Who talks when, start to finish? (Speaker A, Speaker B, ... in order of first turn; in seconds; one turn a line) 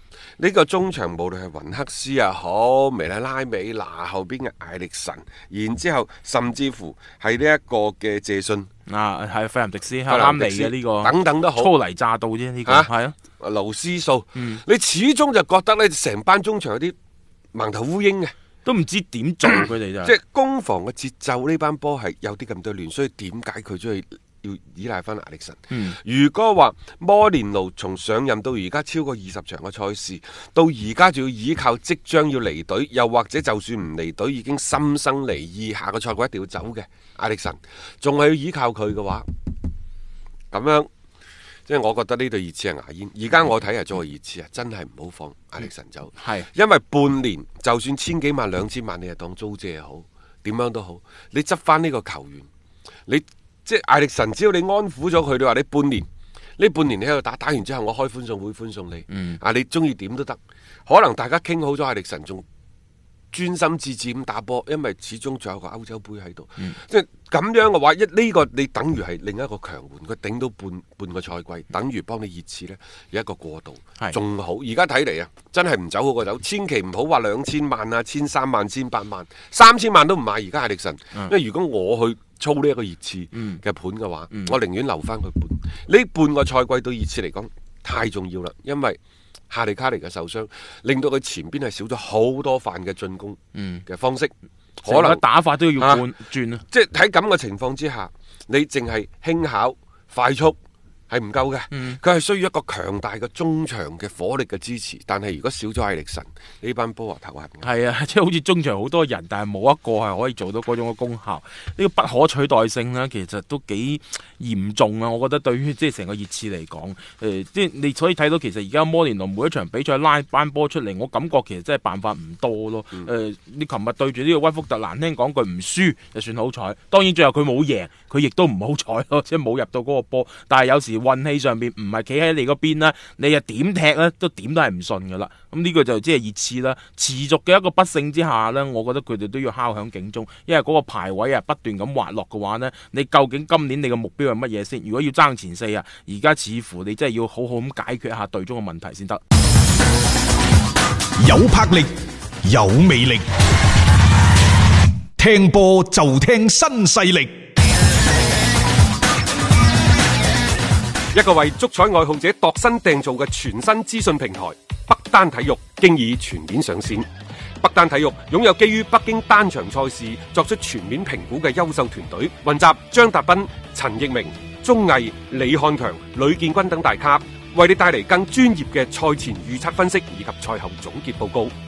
Speaker A: 0.4-8.7
Speaker B: 8.9-13.2
Speaker A: 10.1-11.7
Speaker A: 12.7-16.9
Speaker B: 14.3-14.6
Speaker A: 17.5-18.3
Speaker B: 18.6-20.1
Speaker A: 20.1-39.3
Speaker B: 25.7-26.0
Speaker A: 40.5-40.9
Speaker A: 41.7-52.5
Speaker B: 46.2-46.5
Speaker A: 53.1-56.1
Speaker A: 56.6-62.4
Speaker B: 59.1-59.4
Speaker A: 63.3-89.0
Speaker B: 83.3-83.6
Speaker A: 89.5-94.3
Speaker B: 93.5-93.8
Speaker B: 94.8-96.6
Speaker A: 94.9-95.2
Speaker A: 95.8-96.0
Speaker A: 96.7-100.6
Speaker A: 101.1-107.7
Speaker B: 101.7-102.0
Speaker B: 107.6-149.2
Speaker C: 151.2-153.3
Speaker C: 155.2-157.3
Speaker A: 161.1-167.1
Speaker A: 167.6-181.5